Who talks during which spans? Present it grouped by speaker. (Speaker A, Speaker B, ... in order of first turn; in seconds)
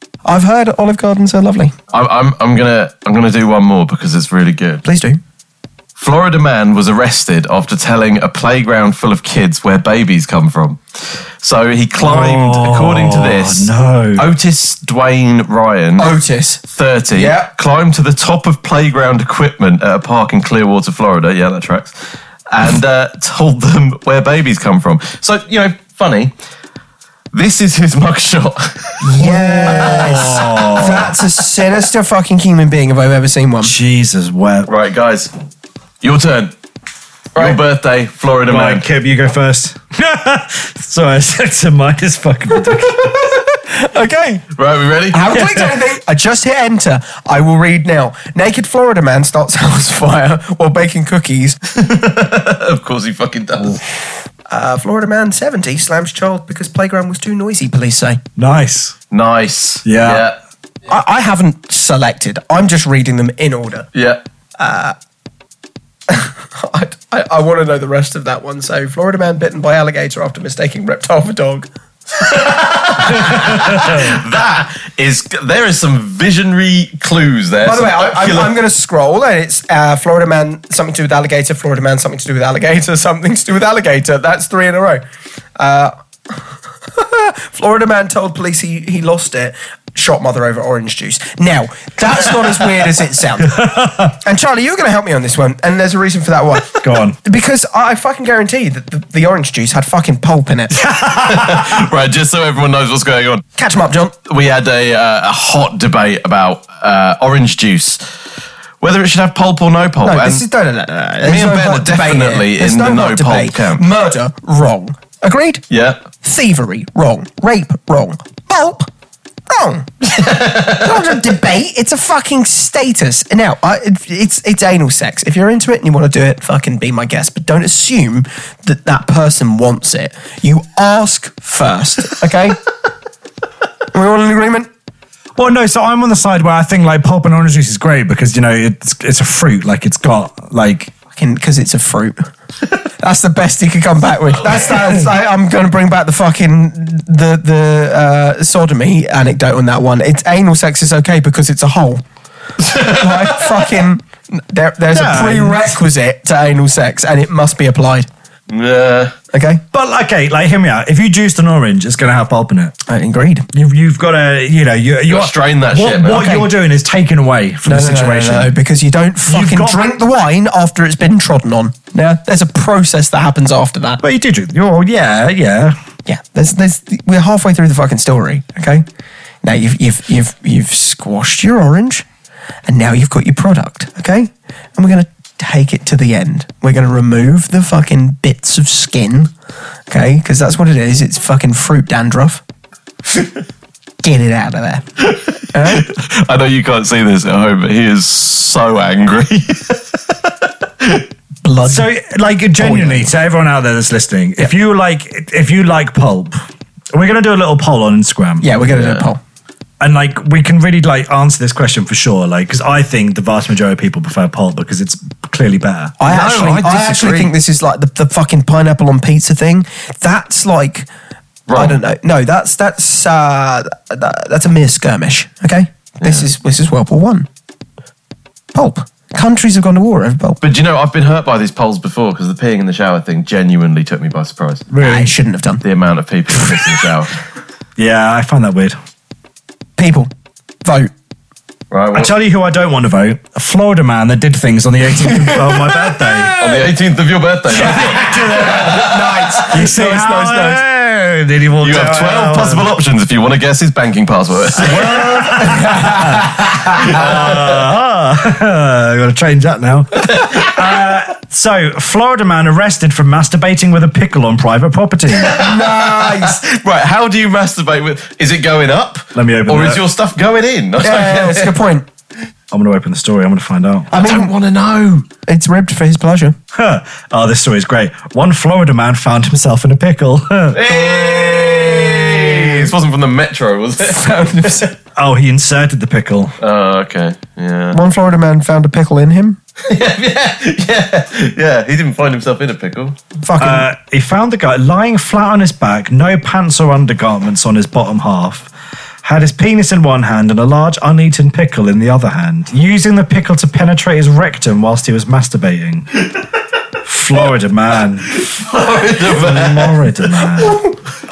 Speaker A: 0.2-1.7, 4.8-5.2, 16.0-17.5, 29.0-33.7, 42.6-44.4, 45.1-51.6, 54.5-58.2, 60.9-63.9, 64.6-65.0, 66.1-71.7, 72.6-74.1, 77.6-85.0, 85.6-93.7, 94.2-100.8, 103.6-104.1, 110.0-115.6, 116.2-118.9, 119.5-119.9, 120.5-132.6, 133.9-134.7, 141.1-142.3, 143.0-152.0, 152.7-158.1, 159.3-159.6, 162.9-163.5, 166.1-166.5, 167.6-174.0, 176.1-178.8, 179.4-182.1, 182.7-189.3, 189.9-192.4, 194.0-194.8, 195.5-195.9, 201.4-201.9, 202.6-203.1, 208.4-209.2, 216.0-220.9, 221.5-227.3, 228.5-230.4, 234.8-235.6, 236.3-236.8, 239.8-240.1, 240.6-240.9, 245.0-246.7, 247.5-250.6, 254.7-257.0, 265.2-266.4, 270.8-271.8, 273.9-274.3, 275.3-276.3, 280.7-282.6, 283.8-284.7, 287.7-289.4, 293.2-293.6
Speaker B: 1.9-4.8, 6.0-16.1, 16.7-21.9, 22.5-26.3, 27.3-29.1, 29.8-30.3, 34.7-35.3, 36.0-36.5, 37.3-38.8, 44.5-45.3, 51.7-53.8, 59.1-60.4, 63.9-64.2, 72.2-78.5, 101.2-103.4, 104.2-108.0, 108.8-110.4, 111.2-113.8, 115.7-116.0, 120.0-121.1, 152.6-153.7, 158.5-159.1, 165.1-166.3, 195.0-201.1, 208.7-209.1, 216.1-217.3, 221.5-221.8, 230.4-234.7, 235.6-237.2, 241.7-242.1, 246.4-249.4, 251.6-255.3, 256.7-257.7, 260.1-260.6, 265.4-271.6, 273.9-275.1, 280.5-284.2, 286.4-287.8, 289.7-293.0, 308.1-310.4
Speaker C: 12.0-14.3, 29.2-31.1, 33.6-34.7, 38.5-43.3, 45.3-45.7, 58.4-59.0, 59.8-60.2, 73.2-74.1, 93.5-94.1, 96.8-97.2, 100.7-101.8, 135.3-140.9, 154.9-155.7, 159.7-162.7, 163.5-168.5, 169.3-170.0, 174.0-175.8, 201.7-206.4, 206.9-208.6, 209.8-216.0, 234.7-235.1, 237.8-238.8, 241.9-246.4, 247.7-248.0, 249.5-252.7, 254.6-265.4, 269.1-269.8, 272.5-273.9, 276.5-280.6, 284.9-286.4, 293.4-298.5, 299.0-305.9, 306.8-308.3, 309.0-310.7